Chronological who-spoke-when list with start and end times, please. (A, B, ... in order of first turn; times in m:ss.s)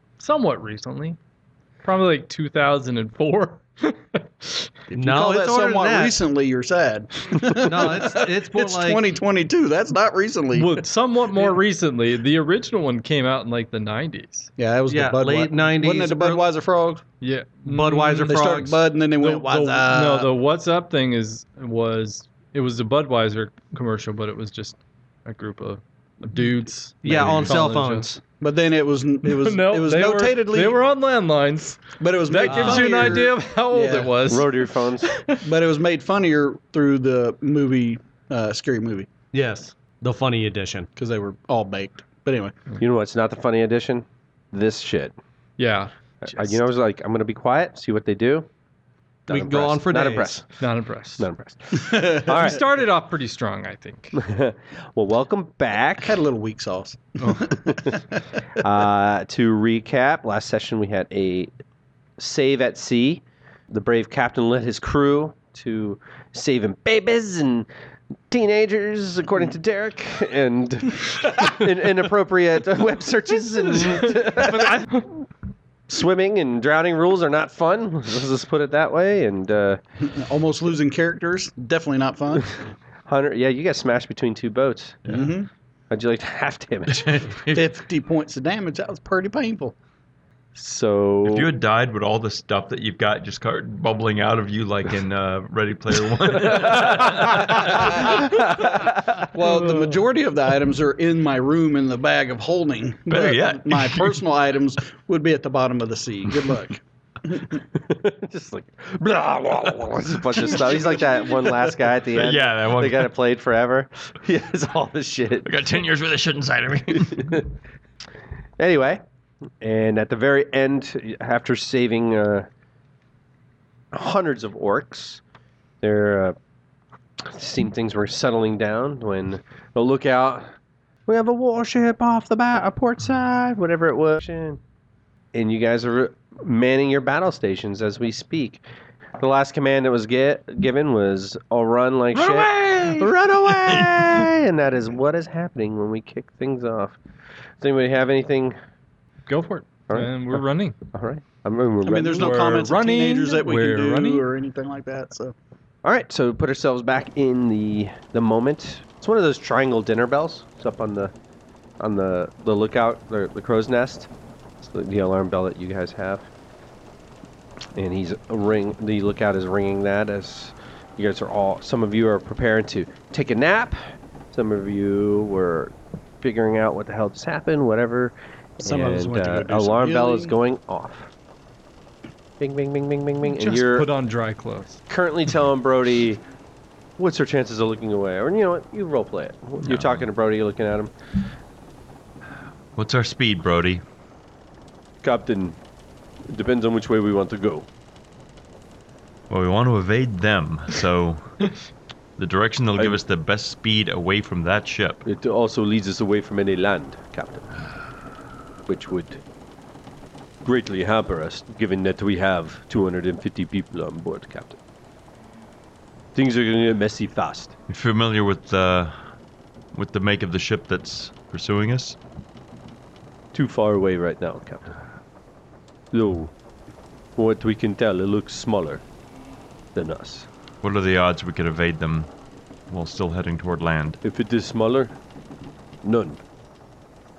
0:00.2-0:01.2 A
0:01.8-0:04.7 A
0:04.9-0:11.6 B
0:04.9-0:06.2 C
0:07.6-0:09.1 C
0:10.5-0:14.5 A
0:14.6-0:17.0 B
0:14.9-0:16.5 C
0:17.2-0:18.7 A
0:17.7-0:18.8 C
0:18.3-0:20.3 B
0:19.2-0:28.1 A
0:27.0-0:28.2 C
0:28.4-0:30.8 B
0:29.2-0:35.4 A
0:32.0-0:34.2 B
0:32.4-0:33.2 C
0:34.3-0:35.1 D
0:35.4-0:39.1 B
0:39.3-0:40.9 C
0:41.0-0:42.7 B
0:42.8-0:45.2 D
0:45.6-0:46.6 A
0:46.2-0:48.5 D
0:49.3-0:50.4 C
0:49.3-0:50.4 D
0:50.6-0:51.3 A
0:51.2-0:52.6 D
0:51.9-0:52.2 B
0:52.1-0:54.2 A
0:54.1-0:56.2 D
0:56.0-0:58.1 B
0:57.7-0:58.0 D
0:58.6-1:01.5 D
1:02.2-1:07.7 D
1:08.3-1:15.1 D
1:14.6-1:15.0 A
1:15.9-1:19.8 D
1:20.0-1:22.6 B
1:23.1-1:25.2 D
1:25.1-1:25.5 B
1:25.9-1:27.3 D
1:26.9-1:27.6 E
1:27.5-1:29.8 B
1:30.6-1:31.5 D
1:31.2-1:38.4 E
1:36.4-1:39.2 D
1:37.7-1:38.3 B
1:39.2-1:47.6 B
1:43.1-1:44.2 E
1:47.7-1:55.6 D
1:52.1-1:53.1 E
1:55.4-1:57.4 E
1:57.1-1:57.4 D
1:58.6-1:59.0 D
1:59.6-2:02.5 D
2:03.9-2:05.2 D
2:05.8-2:06.4 D
2:07.2-2:10.5 D
2:11.1-2:14.6 D
2:15.3-2:18.6 D
2:19.2-2:27.0 D
2:22.2-2:23.1 A
2:27.6-2:28.6 D
2:29.3-2:30.8 A
2:29.9-2:32.5 D
2:31.8-2:35.4 B
2:32.2-2:34.2 A
2:35.8-2:41.1 D
2:41.8-2:44.1 D
2:44.6-2:46.3 D
2:47.8-3:01.1 D
2:58.6-3:00.4 B
3:02.4-3:03.9 D
3:03.3-3:04.8 A
3:04.9-3:06.2 D
3:07.0-3:10.9 D
3:09.6-3:10.1 E
3:12.8-3:13.8 E
3:15.0-3:15.6 D
3:16.3-3:17.7 D
3:19.3-3:21.5 E
3:22.2-3:25.0 E
3:25.0-3:27.5 D
3:28.7-3:29.2 D
3:30.4-3:34.6 D
3:36.2-3:37.5 D
3:37.7-3:39.0 E
3:39.7-3:42.0 E
3:43.3-3:44.8 D
3:45.9-3:46.3 D
3:47.2-3:48.8 D
3:49.8-3:50.3 D
3:50.6-3:52.1 E
3:52.7-3:54.0 E
3:54.0-3:55.0 D
3:55.8-3:56.2 D